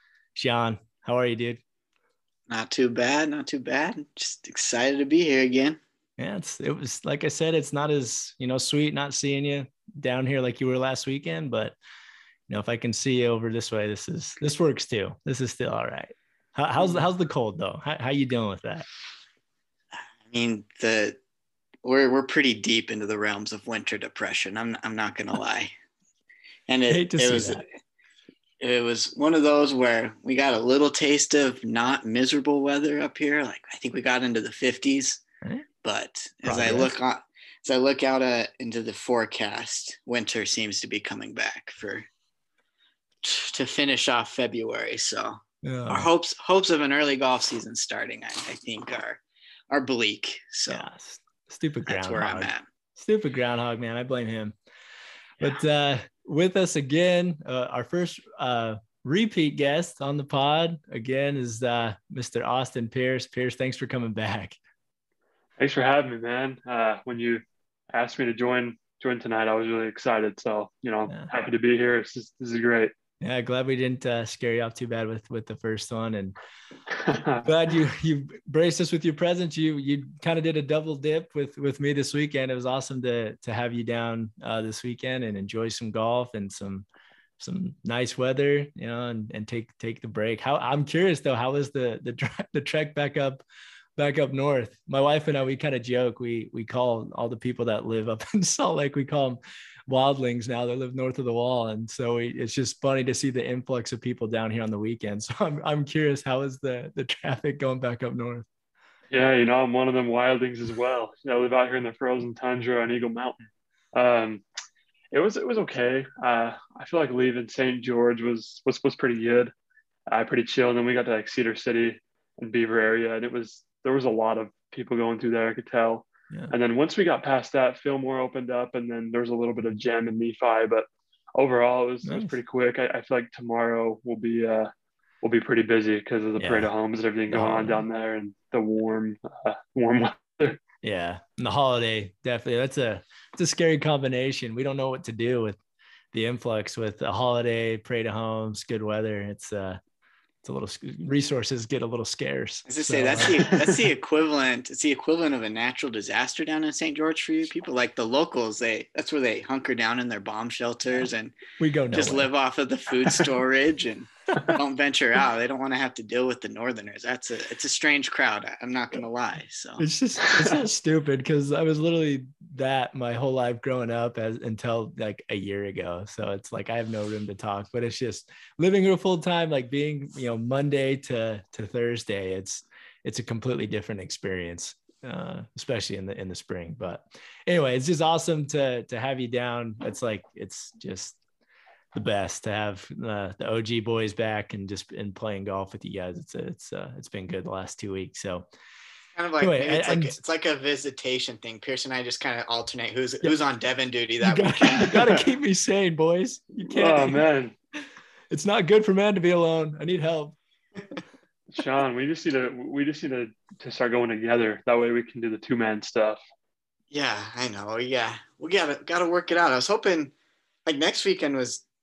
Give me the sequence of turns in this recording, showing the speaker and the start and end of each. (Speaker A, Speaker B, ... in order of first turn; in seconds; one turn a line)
Speaker A: 0.3-1.6
Speaker B: 2.5-5.8
Speaker A: 6.2-11.8
Speaker A: 12.5-18.9
Speaker B: 20.3-21.2
Speaker B: 21.8-25.7
Speaker B: 26.7-27.6
Speaker A: 26.9-27.6
Speaker B: 28.6-35.2
Speaker B: 35.8-42.1
Speaker A: 36.4-36.9
Speaker B: 43.2-45.4
Speaker A: 45.6-46.1
Speaker B: 45.9-50.9
Speaker A: 50.7-54.5
Speaker B: 51.9-52.6
Speaker A: 55.4-64.6
Speaker C: 65.6-72.9
Speaker A: 73.2-76.3
Speaker C: 77.0-77.5
Speaker A: 77.4-86.8
Speaker A: 87.4-93.4
Speaker A: 94.0-108.5
Speaker C: 109.1-113.4
Speaker C: 113.9-114.4
Speaker C: 115.1-119.5
Speaker C: 120.1-140.6
Speaker A: 132.0-132.3
Speaker A: 136.4-136.7
Speaker A: 137.3-137.8
Speaker A: 140.8-145.6
Speaker A: 146.1-149.8
Speaker A: 150.4-153.5
Speaker B: 152.7-161.3
Speaker A: 161.6-162.3
Speaker B: 161.9-169.8
Speaker A: 169.8-191.2
Speaker C: 170.3-170.5
Speaker A: 191.9-198.4
Speaker B: 199.2-205.2
Speaker A: 199.4-200.2
Speaker A: 204.2-207.2
Speaker C: 206.7-207.5
Speaker A: 208.3-210.3
Speaker C: 211.5-216.2
Speaker B: 216.9-220.1
Speaker B: 220.7-221.6